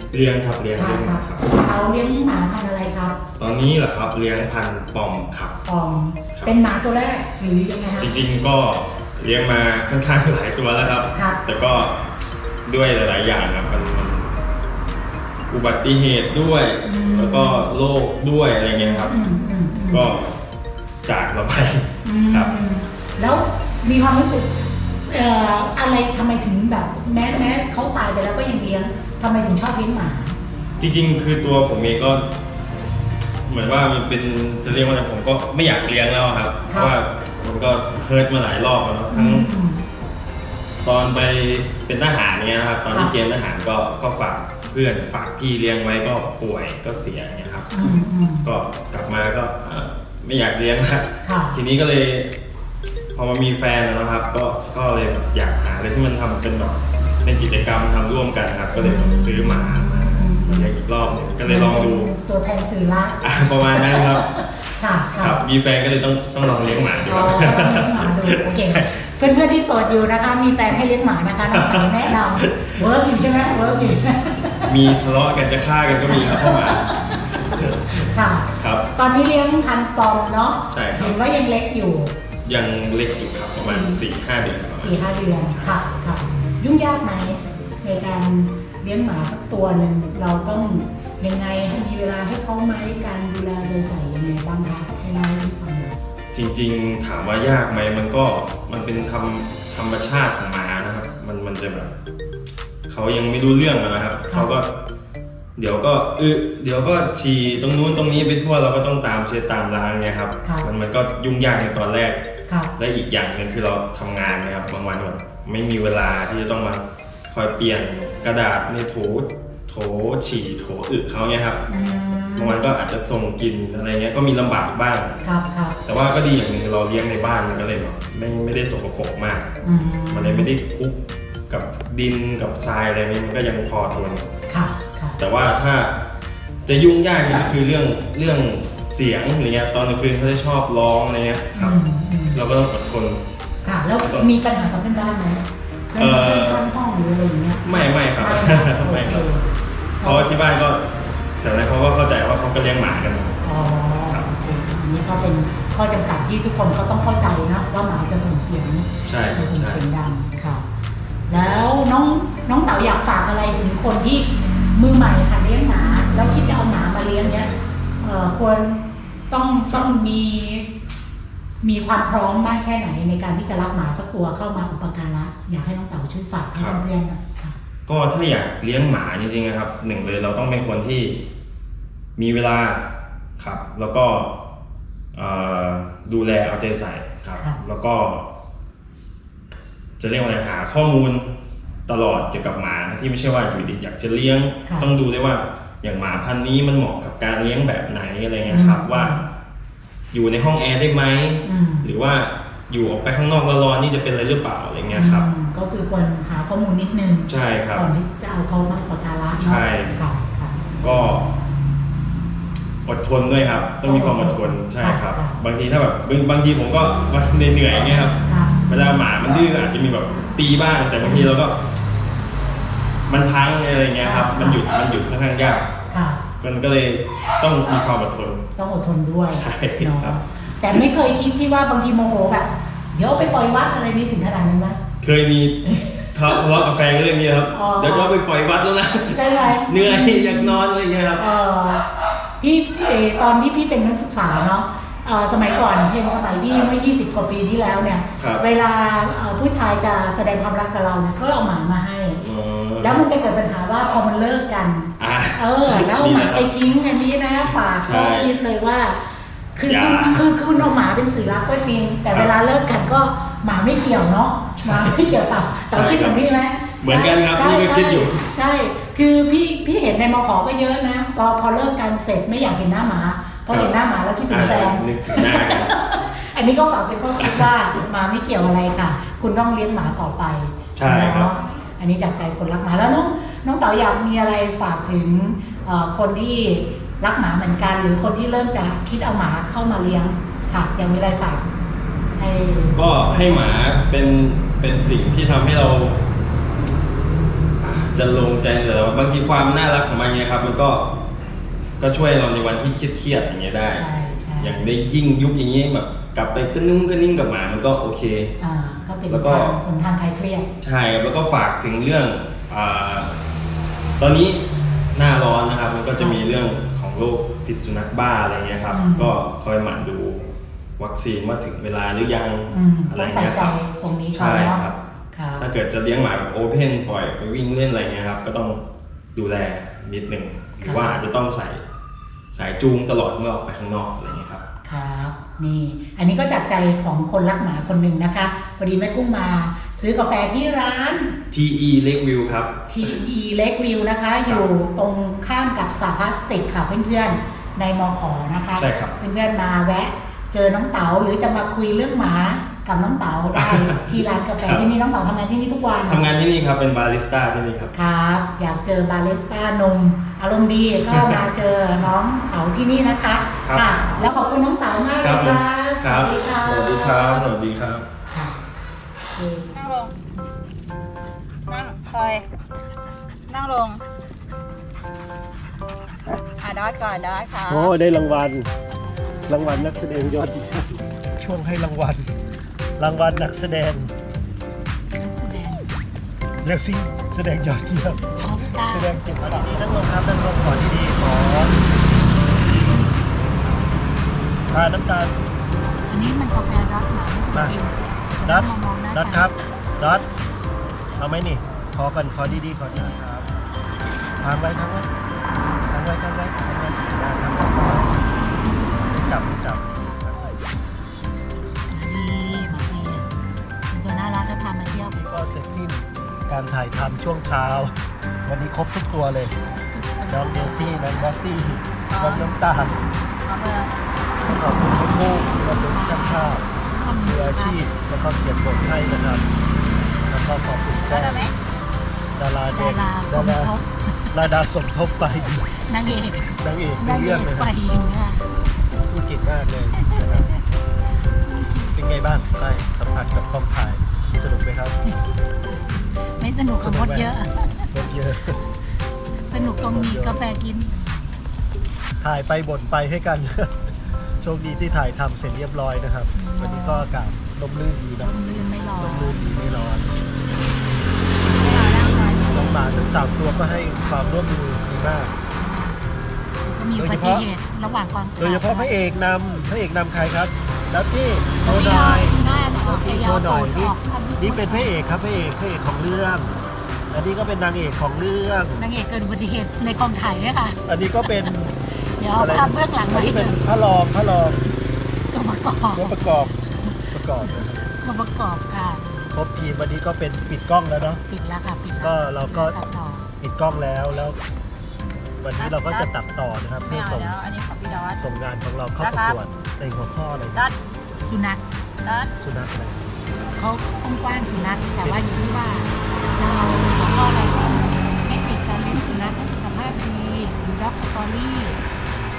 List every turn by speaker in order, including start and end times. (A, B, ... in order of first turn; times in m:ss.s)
0:00.1-0:01.5 A
0:00.8-0:03.2 B
0:03.4-0:05.6 A
0:05.6-0:08.1 B
0:08.0-0:12.0 A
0:11.1-0:11.4 B
0:12.6-0:14.4 A
0:15.5-0:19.2 A
0:16.8-0:17.6 B
0:18.8-0:20.1 B
0:19.9-0:20.3 A
0:21.0-0:22.5 A
0:22.0-0:30.4 B
0:30.8-0:32.3 A
0:33.4-0:39.5 A
0:36.7-0:36.9 B
0:39.1-0:39.8 B
0:40.8-0:52.3 A
0:47.7-0:48.5 B
0:51.2-0:51.5 B
0:53.1-1:02.1 A
0:58.8-1:00.7 B
1:01.4-1:05.4 B
1:03.2-1:04.3 A
1:05.2-1:08.9 A
1:07.0-1:14.7 B
1:11.4-1:12.8 A
1:14.6-1:18.9 A
1:16.0-1:17.1 B
1:18.0-1:22.1 B
1:20.7-1:21.2 A
1:22.4-1:25.8 A
1:23.6-1:24.0 B
1:24.8-1:36.0 B
1:36.3-1:41.9 A
1:42.9-1:44.7 A
1:44.3-1:44.5 B
1:45.6-1:52.2 A
1:50.4-1:50.7 B
1:52.8-2:01.6 A
2:01.7-2:02.6 B
2:02.4-2:05.2 A
2:05.2-2:05.8 B
2:05.8-2:09.5 A
2:09.6-2:10.5 B
2:10.1-2:14.3 A
2:14.5-2:15.2 B
2:15.2-2:15.9 A
2:16.6-2:21.8 A
2:21.5-2:22.4 B
2:22.3-2:23.2 A
2:23.6-2:29.5 B
2:24.0-2:24.3 A
2:26.0-2:26.6 A
2:27.6-2:29.3 A
2:30.0-2:30.3 B
2:30.0-2:30.9 A
2:31.4-2:33.4 A
2:33.4-2:40.6 B
2:39.0-2:39.8 A
2:41.3-2:50.7 B
2:51.6-2:57.6 B
2:56.5-2:56.8 A
2:57.9-3:01.2 A
3:02.2-3:04.3 A
3:05.1-3:08.2 A
3:10.0-3:11.3 A
3:11.9-3:19.2 A
3:14.6-3:14.9 B
3:18.5-3:19.2 B
3:20.1-3:25.2 A
3:21.4-3:21.9 B
3:24.9-3:30.6 B
3:27.3-3:27.8 A
3:29.4-3:30.0 A
3:30.8-3:31.3 A
3:32.8-3:38.2 A
3:33.8-3:35.4 B
3:38.2-3:38.5 B
3:38.7-3:41.6 A
3:41.0-3:41.3 B
3:43.1-3:45.7 A
3:44.0-3:44.7 B
3:45.9-3:46.2 B
3:46.4-3:48.4 A
3:48.6-3:54.8 B
3:49.3-3:50.2 A
3:55.0-4:01.2 A
3:57.5-3:58.1 B
3:59.1-4:00.6 B
4:01.2-4:01.9 B
4:02.4-4:12.2 B
4:08.2-4:08.5 A
4:12.2-4:13.0 A
4:12.8-4:19.0 B
4:15.0-4:16.5 A
4:17.8-4:18.3 A
4:19.5-4:51.5 B
4:19.6-4:20.3 A
4:24.6-4:25.0 A
4:25.7-4:26.2 A
4:26.8-4:28.2 A
4:33.5-4:33.7 A
4:34.3-4:35.7 A
4:37.2-4:37.5 A
4:40.8-4:41.3 A
4:52.2-4:53.5 B
4:52.7-4:56.0 A
4:57.6-5:00.9 A
5:01.8-5:03.8 A
5:03.7-5:04.6 B
5:04.4-5:08.3 A
5:08.4-5:10.5 B
5:09.1-5:09.6 A
5:10.6-5:13.2 A
5:14.0-5:23.6 A
5:18.7-5:19.2 B
5:22.5-5:25.4 B
5:24.1-5:24.8 A
5:25.4-5:28.6 A
5:29.1-5:31.6 A
5:30.6-5:31.0 B
5:32.3-5:34.4 A
5:34.6-5:41.1 B
5:41.3-5:43.0 A
5:42.7-5:56.0 B
5:48.5-5:48.9 A
5:53.3-5:54.7 A
5:55.9-5:57.7 A
5:57.7-6:07.3 B
6:00.9-6:01.2 A
6:03.4-6:04.0 A
6:05.0-6:07.9 A
6:08.1-6:08.4 B
6:09.1-6:09.6 B
6:09.5-6:10.0 C
6:11.5-6:12.2 C
6:13.3-6:13.8 C
6:16.4-6:17.7 C
6:17.5-6:18.5 D
6:19.3-6:22.1 D
6:19.3-6:20.2 B
6:22.8-6:23.9 D
6:25.0-6:25.6 B
6:26.4-6:31.8 D
6:28.2-6:29.0 B
6:34.5-6:35.2 D
6:35.9-6:39.3 B
6:38.2-6:40.1 D
6:41.0-6:43.3 D
6:44.2-6:44.9 D
6:45.7-6:48.0 D
6:48.9-6:50.4 D
6:51.7-6:53.1 B
6:53.7-6:55.0 B
6:54.9-6:57.7 D
6:58.2-6:59.4 D
6:59.7-7:00.8 C
7:00.1-7:02.8 D
7:01.9-7:02.4 C
7:03.2-7:03.7 C
7:04.2-7:06.5 D
7:04.2-7:07.6 B
7:07.0-7:09.2 D
7:10.0-7:11.3 D
7:10.7-7:11.4 C
7:12.2-7:13.6 D
7:12.5-7:14.4 B
7:14.1-7:15.5 D
7:15.5-7:18.3 B
7:16.4-7:17.5 D
7:18.8-7:20.3 D
7:21.2-7:21.8 B
7:21.7-7:24.8 D
7:26.2-7:27.6 B
7:26.6-7:27.2 D
7:27.7-7:28.4 D
7:29.2-7:31.1 B
7:29.7-7:30.2 D
7:32.0-7:33.6 D
7:34.2-7:38.1 D
7:36.1-7:36.9 B
7:38.0-7:39.2 B
7:38.8-7:39.9 D
7:41.2-7:42.6 C
7:42.2-7:45.1 D
7:45.3-7:48.7 B
7:46.8-7:47.3 D
7:48.2-7:56.4 D
7:51.4-7:54.7 B
7:56.9-7:58.6 D
7:58.6-8:03.4 B
8:00.7-8:01.4 D
8:02.2-8:04.4 D
8:05.1-8:09.0 B
8:05.7-8:06.3 D
8:06.9-8:07.6 D
8:09.1-8:11.0 D
8:11.1-8:13.1 B
8:11.8-8:12.6 D
8:13.2-8:14.2 D
8:15.2-8:17.2 D
8:15.4-8:15.9 C
8:16.6-8:18.0 C
8:17.9-8:20.4 D
8:18.8-8:19.4 C
8:20.3-8:20.6 C
8:21.0-8:21.4 B
8:21.8-8:22.1 C
8:22.2-8:23.0 D
8:23.3-8:31.6 B